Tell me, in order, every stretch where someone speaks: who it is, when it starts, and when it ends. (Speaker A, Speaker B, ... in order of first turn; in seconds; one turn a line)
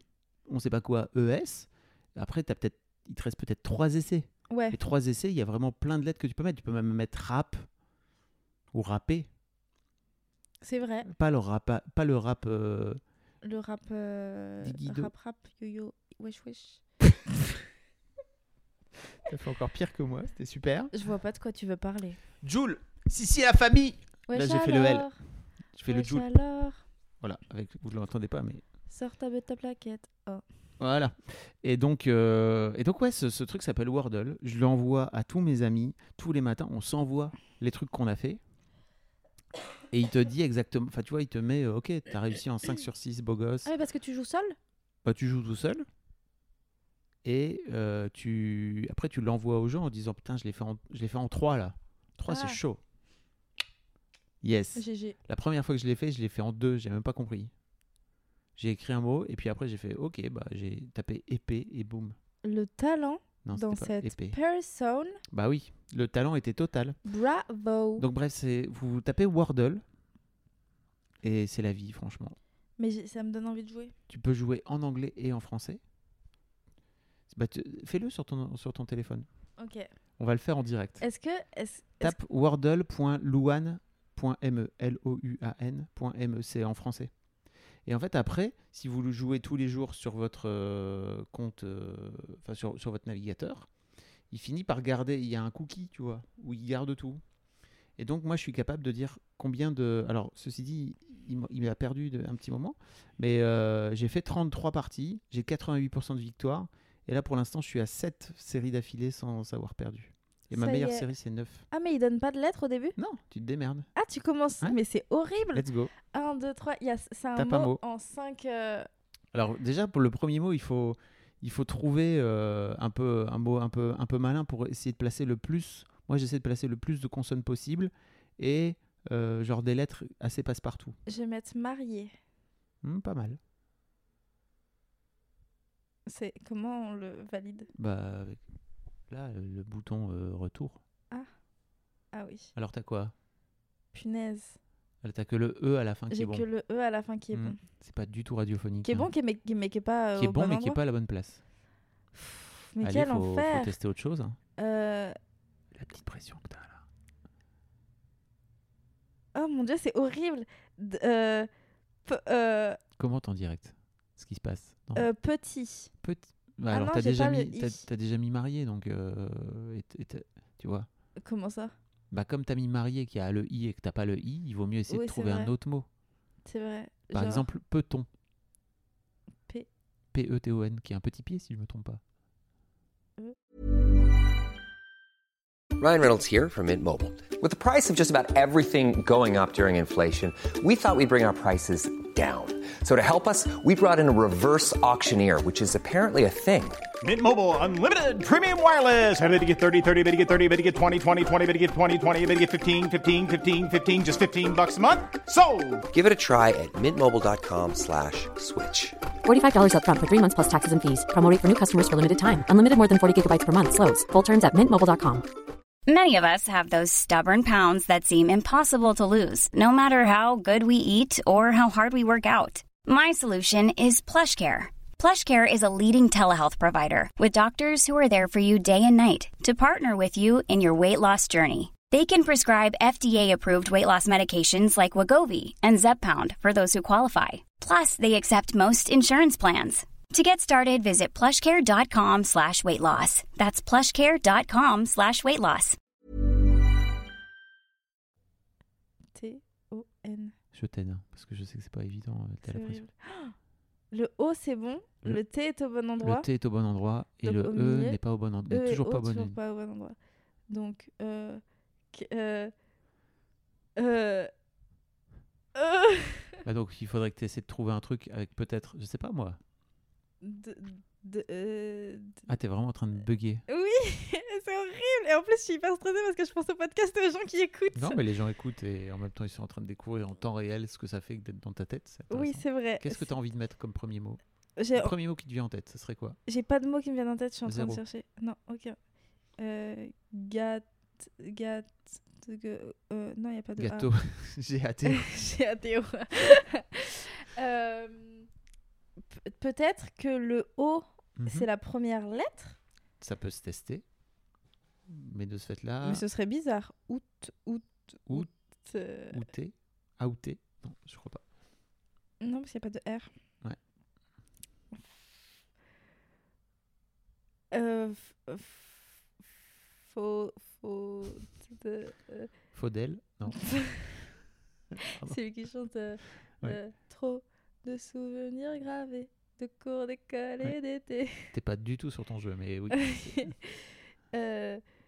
Speaker A: 0.5-7.7
Speaker B: 4.5-4.8
Speaker A: 8.7-9.3
Speaker B: 10.6-11.1
Speaker A: 11.1-13.0
Speaker B: 13.4-16.8
Speaker A: 14.6-15.1
Speaker A: 19.3-20.9
Speaker B: 20.9-22.2
Speaker A: 22.4-25.1
Speaker B: 24.3-25.2
Speaker A: 25.8-26.3
Speaker B: 25.9-26.8
Speaker A: 27.2-28.6
Speaker B: 28.9-30.4
Speaker A: 30.8-38.4
Speaker A: 39.9-43.7
Speaker B: 43.6-44.6
Speaker A: 45.0-45.9
Speaker A: 47.2-52.8
Speaker B: 52.3-52.6
Speaker A: 54.4-57.5
Speaker B: 54.8-55.2
Speaker A: 58.6-62.2
Speaker B: 62.4-65.2
Speaker A: 63.4-64.4
Speaker A: 65.3-67.0
Speaker B: 67.1-68.0
Speaker A: 68.0-69.8
Speaker A: 71.2-72.4
Speaker B: 72.8-73.9
Speaker A: 74.1-75.8
Speaker A: 77.3-79.3
Speaker B: 79.6-79.9
Speaker A: 80.2-81.0
Speaker B: 81.0-82.2
Speaker A: 82.0-87.1
Speaker A: 87.9-93.7
Speaker A: 94.3-97.2
Speaker A: 98.0-111.7
Speaker B: 110.5-111.1
Speaker B: 111.7-113.0
Speaker A: 113.0-113.9
Speaker B: 114.0-118.9
Speaker A: 115.5-115.9
Speaker A: 117.4-117.8
Speaker A: 119.3-131.0
Speaker B: 131.1-132.1
Speaker A: 132.8-133.4
Speaker B: 136.1-137.7
Speaker A: 137.8-138.4
Speaker A: 139.1-140.8
Speaker B: 142.1-142.5
Speaker A: 142.6-143.1
Speaker B: 143.9-144.6
Speaker A: 145.0-146.5
Speaker B: 146.1-147.6
Speaker A: 147.3-149.1
Speaker B: 148.8-150.8
Speaker A: 150.2-151.4
Speaker B: 152.2-153.7
Speaker A: 152.8-154.4
Speaker B: 154.6-155.2
Speaker A: 155.7-156.8
Speaker B: 159.3-161.5
Speaker B: 162.1-162.8
Speaker A: 163.0-165.1
Speaker B: 165.0-165.9
Speaker A: 166.0-170.9
Speaker B: 166.7-167.8
Speaker B: 171.2-171.7
Speaker A: 172.1-175.9
Speaker B: 174.9-175.5
Speaker B: 176.4-177.5
Speaker A: 177.1-178.1
Speaker A: 180.1-182.0
Speaker C: 185.8-196.8
Speaker D: 197.1-205.6
Speaker C: 205.9-209.0
Speaker E: 209.2-215.3
Speaker F: 215.9-245.8
Speaker B: 249.2-250.3
Speaker A: 250.5-252.8
Speaker B: 252.5-253.3
Speaker B: 253.9-256.3
Speaker A: 256.0-259.4
Speaker B: 257.2-258.0
Speaker B: 258.5-260.0
Speaker B: 260.5-262.5
Speaker B: 263.8-264.3
Speaker B: 265.6-266.4
Speaker A: 266.4-269.4
Speaker B: 270.2-272.3
Speaker A: 272.3-273.4
Speaker B: 273.5-278.0
Speaker A: 277.7-284.2
Speaker B: 282.1-283.1
Speaker B: 284.6-284.9
Speaker A: 284.7-286.2
Speaker B: 286.3-288.8
Speaker A: 287.5-287.8
Speaker B: 289.4-293.9
Speaker A: 293.6-295.1
Speaker B: 294.9-298.3
Speaker B: 299.1-302.6
Speaker A: 301.2-301.5
Speaker A: 303.0-303.8
Speaker A: 304.9-306.0
Speaker B: 305.8-309.2
Speaker A: 309.1-311.2
Speaker B: 312.2-313.1
Speaker B: 317.5-318.8
Speaker B: 319.9-322.3
Speaker A: 322.5-323.4
Speaker B: 323.3-323.9
Speaker B: 324.9-331.3
Speaker A: 324.9-325.2
Speaker A: 331.3-333.3
Speaker B: 332.7-333.6
Speaker B: 334.1-334.6